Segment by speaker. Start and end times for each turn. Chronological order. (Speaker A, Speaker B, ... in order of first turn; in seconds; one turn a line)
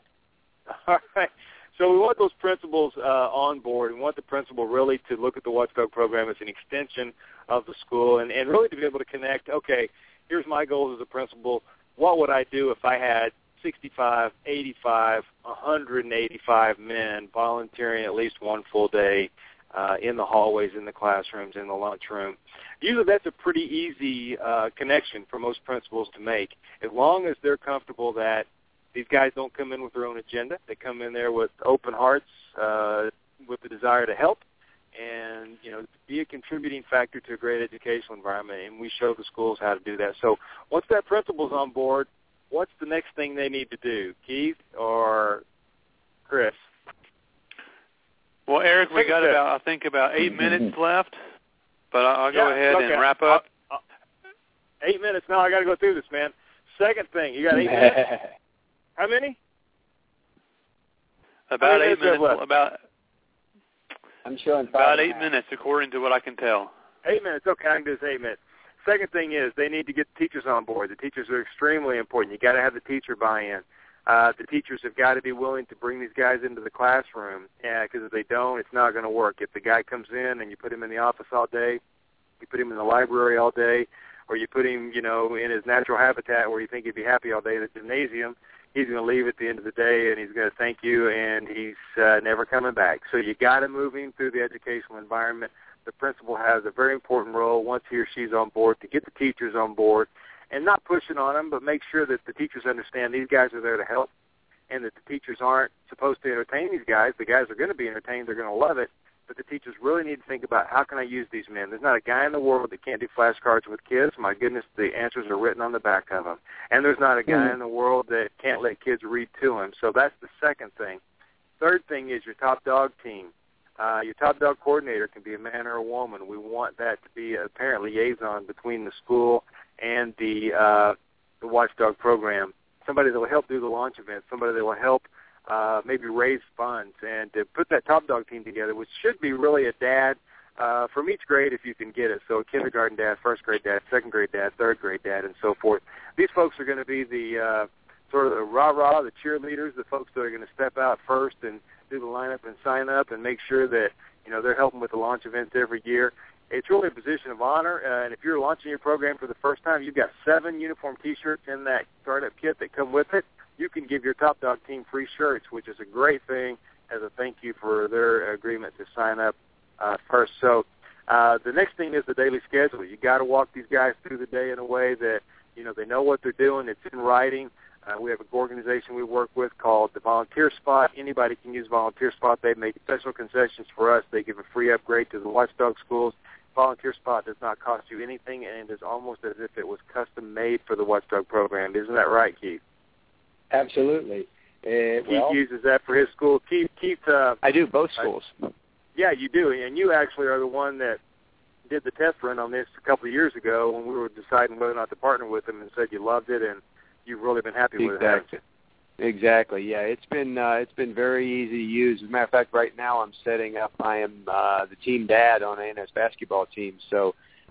Speaker A: 0.7-34.4
Speaker A: 35.0-45.4
Speaker A: 46.3-46.6
Speaker B: 48.5-51.2
Speaker A: 48.9-49.4
Speaker B: 51.9-53.4
Speaker A: 52.3-53.8
Speaker A: 54.8-58.0
Speaker C: 57.5-58.3
Speaker A: 59.0-59.4
Speaker B: 61.5-62.8
Speaker A: 61.6-62.4
Speaker C: 64.2-65.3
Speaker B: 64.7-66.7
Speaker A: 67.0-81.8
Speaker A: 82.4-104.1
Speaker A: 104.7-121.0
Speaker A: 121.6-192.6
Speaker C: 193.5-195.4
Speaker A: 195.1-197.4
Speaker C: 197.4-198.3
Speaker A: 199.0-201.0
Speaker A: 201.7-208.3
Speaker C: 207.8-208.4
Speaker C: 209.0-217.1